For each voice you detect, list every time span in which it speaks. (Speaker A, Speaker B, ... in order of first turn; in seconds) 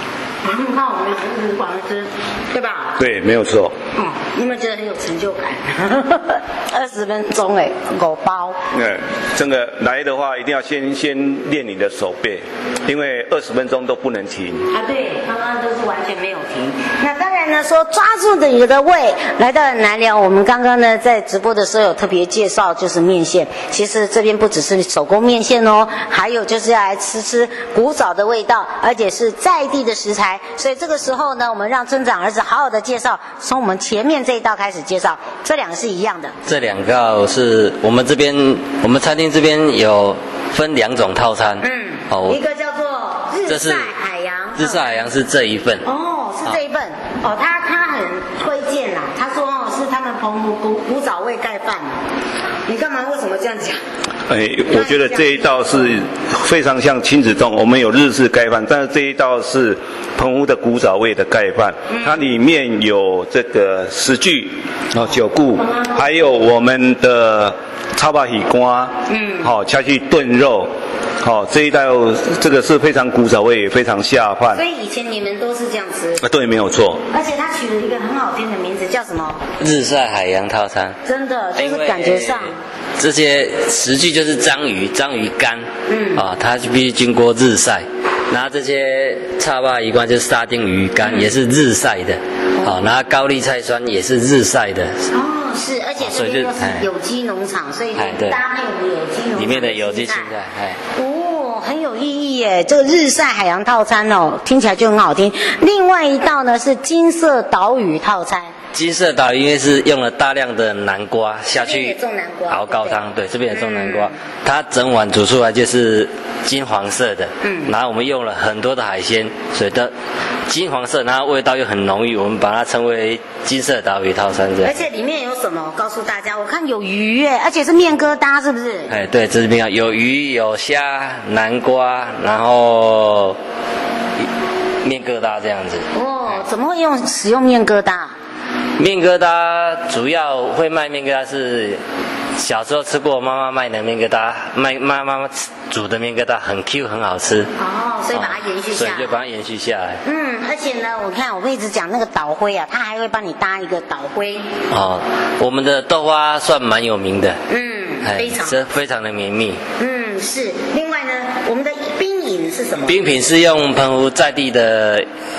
Speaker A: 0.4-3.0, 3.9-8.6, 14.7-36.3, 41.6-45.1, 45.8-52.0, 52.7-53.8, 54.7-55.9, 61.9-62.3, 65.0-66.0, 69.1-69.6, 74.5-76.2, 77.1-79.4, 81.0-82.6, 85.9-86.2, 91.0-91.3, 92.6-92.8, 95.1-100.3, 100.9-108.5, 111.5-114.1, 117.4-117.7, 124.6-128.9, 135.9-138.1, 147.6-149.2, 150.0-154.5, 157.5-158.6, 159.8-163.0
Speaker B: 3.0-3.7, 8.7-14.7, 54.3-74.6, 76.2-77.0
Speaker C: 36.5-42.4, 43.5-43.9, 44.6-45.9, 79.6-81.0, 81.6-95.1, 96.0-96.9, 97.9-98.4, 99.3-100.8, 108.7-112.0, 112.5-119.9, 120.5-124.8, 128.9-133.4, 134.8-135.8, 138.8-141.8, 142.4-147.5, 148.1-150.0, 154.7-157.4, 158.0-159.6, 162.8-165.1